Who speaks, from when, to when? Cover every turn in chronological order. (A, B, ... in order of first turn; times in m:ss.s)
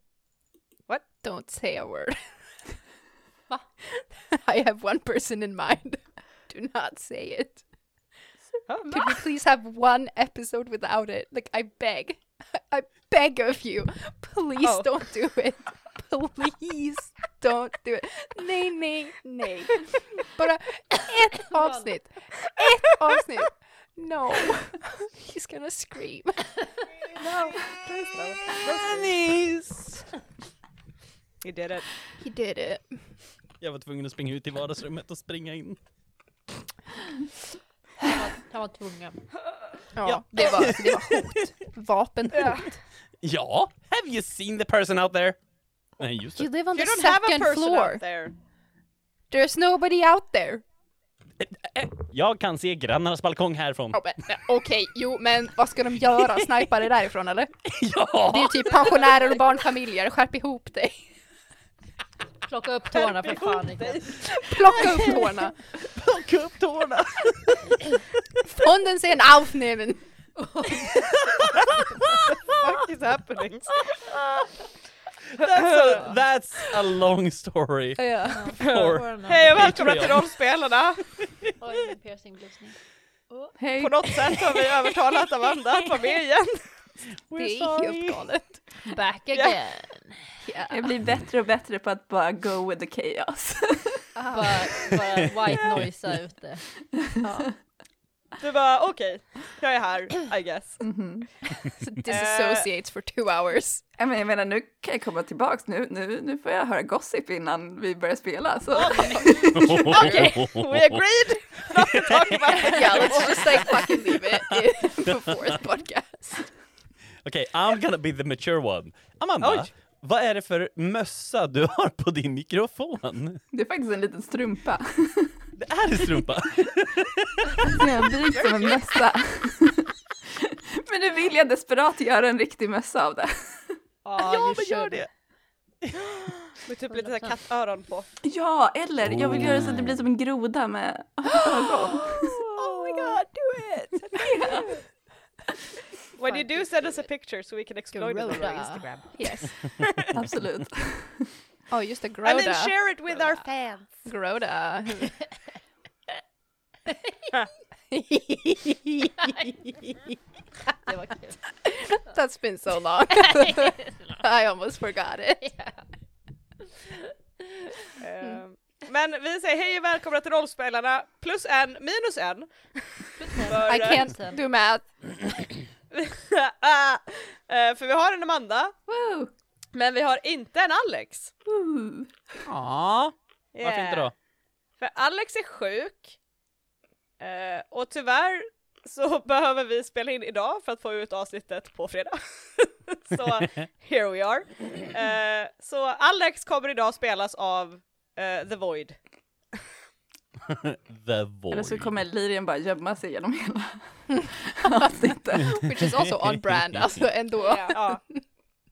0:01.2-0:02.2 A
0:04.0-0:07.6 A
0:08.7-0:09.2 B
0:08.9-0:26.6 A
0:14.6-0:14.9 B
0:21.6-0:21.9 C
0:27.2-0:29.1 B
0:28.7-0:30.1 D
0:31.4-0:31.9 B
0:32.2-0:33.0 A
0:33.6-0:35.8 D
0:38.0-0:39.3 C
0:40.0-0:42.7 A
0:40.0-0:40.7 B
0:40.4-0:41.3 D
0:42.3-0:42.7 B
0:43.2-0:45.4 D
0:46.0-0:46.5 D
0:46.4-0:48.0 A
0:46.7-0:48.3 B
0:49.3-0:50.6 A
0:51.4-0:54.3 D
0:53.9-0:57.5 A
0:57.6-0:58.8 D
0:58.2-1:01.0 A
1:02.5-1:04.2 C
1:03.0-1:05.1 B
1:04.2-1:05.6 A
1:05.8-1:07.8 D
1:08.6-1:10.0 A
1:10.4-1:11.1 C
1:10.9-1:12.5 D
1:12.4-1:13.8 B
1:15.3-1:20.3 D
1:15.4-1:16.1 B
1:18.0-1:18.6 A
1:18.4-1:19.7 C
1:18.6-1:21.0 B
1:21.6-1:22.8 C
1:23.6-1:24.8 E
1:23.8-1:26.6 B
1:27.3-1:28.2 D
1:27.4-1:28.7 A
1:28.9-1:30.4 C
1:30.4-1:30.9 A
1:30.7-1:34.0 E
1:34.2-1:34.7 A
1:34.3-1:36.6 C
1:37.2-1:37.5 A
1:38.4-1:40.8 B
1:40.8-1:41.3 E
1:41.6-1:43.8 A
1:42.1-1:42.7 B
1:44.0-1:49.6 E
1:48.7-1:53.8 B
1:48.9-1:50.3 A
1:49.5-1:50.9 D
1:51.8-1:53.8 D
1:52.6-1:56.5 A
1:54.4-1:55.3 D
1:57.2-2:03.4 D
1:59.4-1:59.7 B
2:03.5-2:05.4 E
2:05.6-2:07.8 D
2:07.7-2:13.8 E
2:08.3-2:08.8 B
2:14.0-2:15.1 C
2:14.2-2:15.1 D
2:16.6-2:18.1 B
2:16.9-2:17.4 C
2:18.2-2:22.5 E
2:19.4-2:19.7 D
2:22.4-2:23.3 B
2:24.0-2:24.8 B
2:24.1-2:24.7 E
2:26.2-2:30.1 B
2:26.2-2:27.1 C
2:27.9-2:29.6 A
2:30.1-2:31.3 E
2:31.7-2:32.8 A
2:32.2-2:34.1 B
2:34.1-2:35.2 A
2:37.9-2:39.1 A
2:39.2-2:39.5 C
2:40.8-2:41.4 C
2:41.6-2:45.5 A
2:43.3-2:44.1 C
2:45.4-2:45.8 C
2:48.0-2:54.0 B
2:53.2-2:54.4 C
2:53.7-2:54.9 A
2:55.9-2:58.7 B
2:58.9-2:59.3 E
2:59.7-3:01.3 B
3:01.4-3:02.1 E
3:02.4-3:04.1 D
3:03.5-3:04.1 B
3:04.8-3:06.2 B
3:07.2-3:19.0 B
3:20.4-3:21.9 D
3:21.5-3:25.5 E
3:24.8-3:28.2 A
3:27.4-3:27.8 C
3:27.6-3:28.0 B